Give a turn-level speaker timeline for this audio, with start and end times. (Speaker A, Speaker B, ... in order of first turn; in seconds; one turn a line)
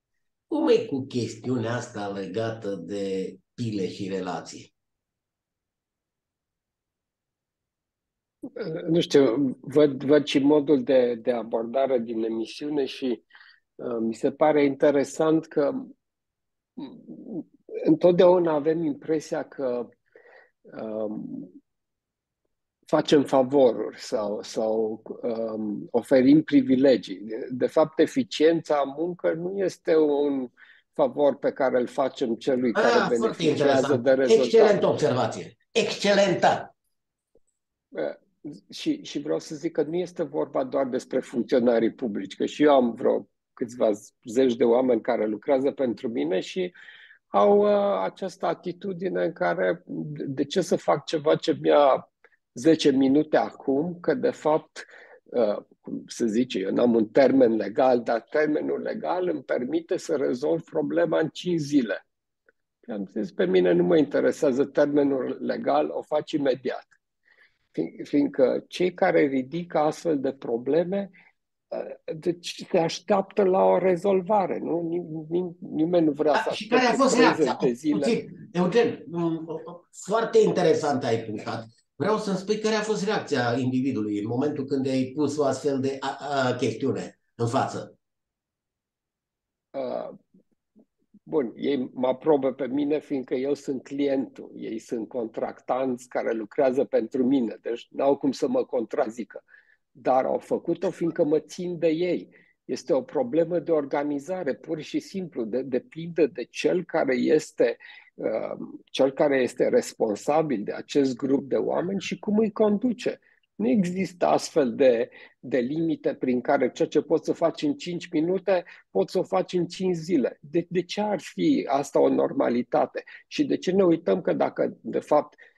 Speaker A: 0.5-4.7
Speaker B: 8.6-13.2
Speaker B: 13.8-15.9
Speaker B: 16.8-19.9
Speaker B: 20.7-21.6
Speaker B: 22.9-34.8
Speaker A: 32.7-36.7
Speaker B: 37.9-46.7
Speaker B: 47.3-62.0
Speaker B: 62.9-66.9
Speaker B: 67.7-71.1
Speaker B: 71.7-78.2
Speaker A: 76.3-87.9
Speaker B: 89.7-90.2
Speaker B: 91.3-99.4
Speaker B: 99.9-125.4